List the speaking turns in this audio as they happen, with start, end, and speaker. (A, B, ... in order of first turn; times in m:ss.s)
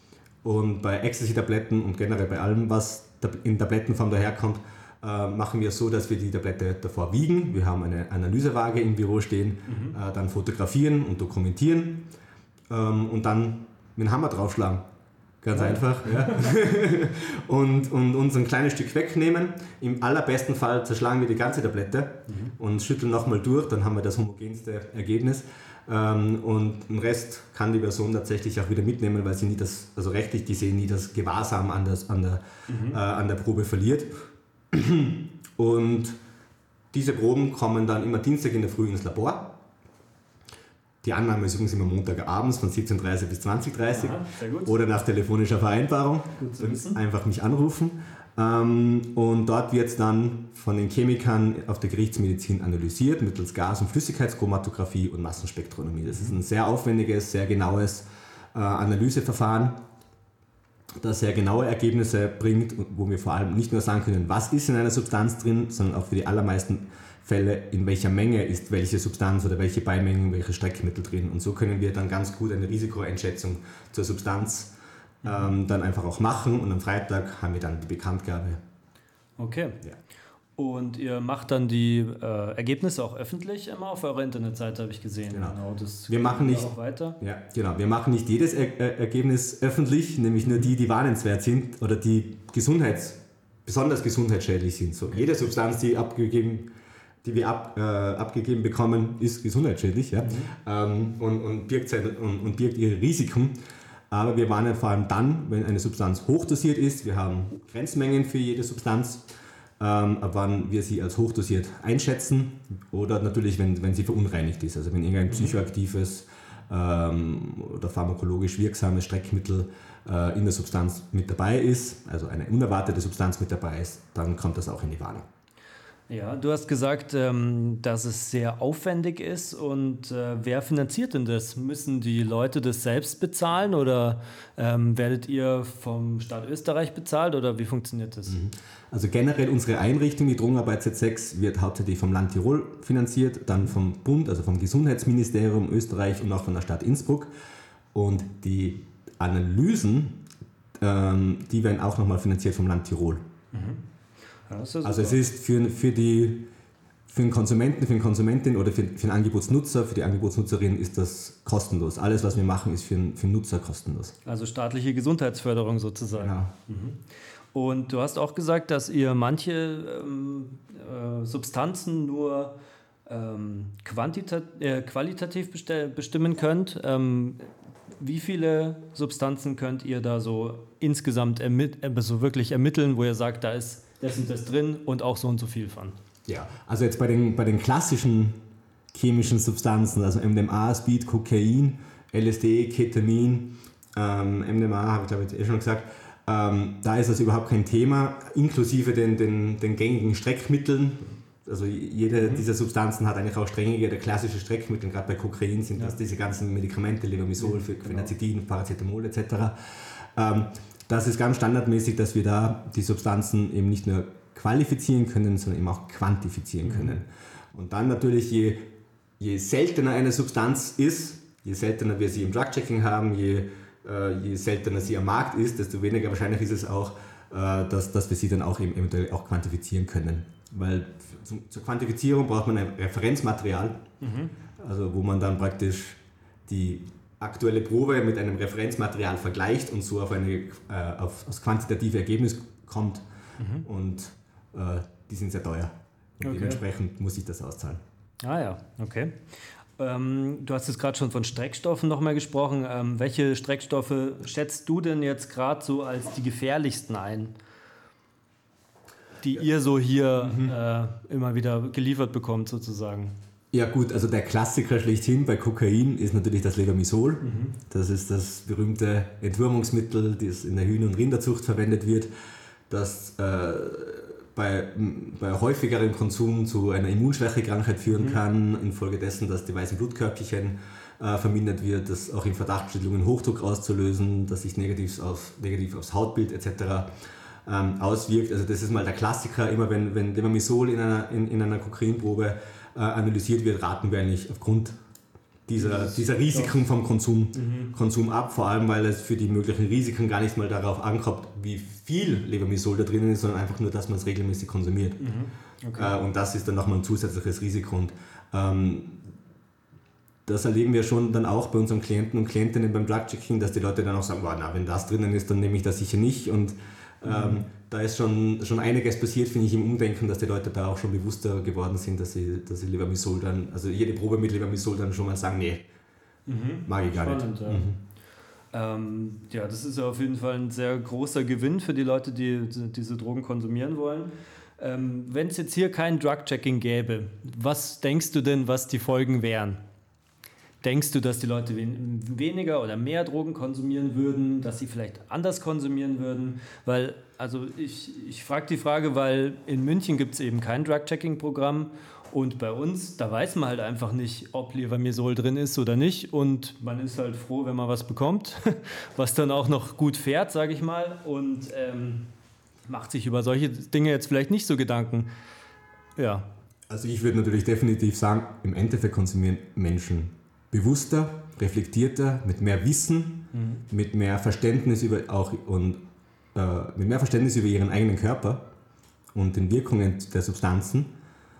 0:00.4-0:12.1 A
0:09.7-0:10.0 B
0:12.7-0:14.9 A
0:15.4-0:36.2 A
0:15.5-0:16.4 B
0:22.3-0:22.5 B
0:32.7-0:33.0 B
0:36.9-0:39.6 A
0:41.0-0:59.8 A
0:43.9-0:44.8 B
0:46.4-0:47.0 B
0:56.1-0:56.4 B
1:01.0-1:14.7 A
1:15.2-1:15.5 B
1:15.2-1:18.6 A
1:19.4-1:19.8 B
1:20.6-1:27.2 B
1:25.3-1:36.7 A
1:30.4-1:30.7 B
1:37.2-1:43.6 A
1:40.2-1:40.5 B
1:44.1-2:05.3 A
1:55.3-1:55.6 B
2:06.1-2:18.4 B
2:18.3-2:27.3 A
2:27.9-2:30.2 A
2:30.8-2:33.2 A
2:33.5-2:33.8 B
2:34.5-2:35.3 B
2:34.8-2:36.5 A
2:37.1-2:44.1 A
2:44.2-2:47.0 B
2:46.2-2:46.5 A
2:47.5-3:06.0 B
3:06.2-3:08.4 A
3:08.9-3:29.6 A
3:22.2-3:22.4 B
3:27.4-3:28.1 B
3:30.1-3:53.8 A
3:36.6-3:37.0 B
3:54.0-3:54.3 B
3:54.6-4:03.0 A
4:03.4-4:03.6 B
4:03.6-4:07.8 A
4:06.2-4:06.6 B
4:08.2-4:09.2 B
4:09.8-4:17.3 B
4:19.2-4:23.1 B
4:20.2-4:20.5 A
4:23.5-4:32.1 A
4:27.2-4:27.6 B
4:32.7-4:46.9 A
4:37.9-4:38.2 B
4:47.4-4:54.8 A
4:55.5-5:05.0 A
4:55.5-4:56.6 B
4:57.3-4:57.7 B
5:05.0-5:06.0 B
5:05.7-5:09.1 A
5:10.2-5:25.6 A
5:17.0-5:17.4 B
5:26.2-5:27.7 B
5:26.6-5:27.8 A
5:28.5-5:39.6 B
5:40.6-6:02.1 B
6:02.7-6:05.1 B
6:06.0-6:06.3 B
6:06.7-6:18.5 A
6:13.3-6:13.6 B
6:19.1-6:20.9 A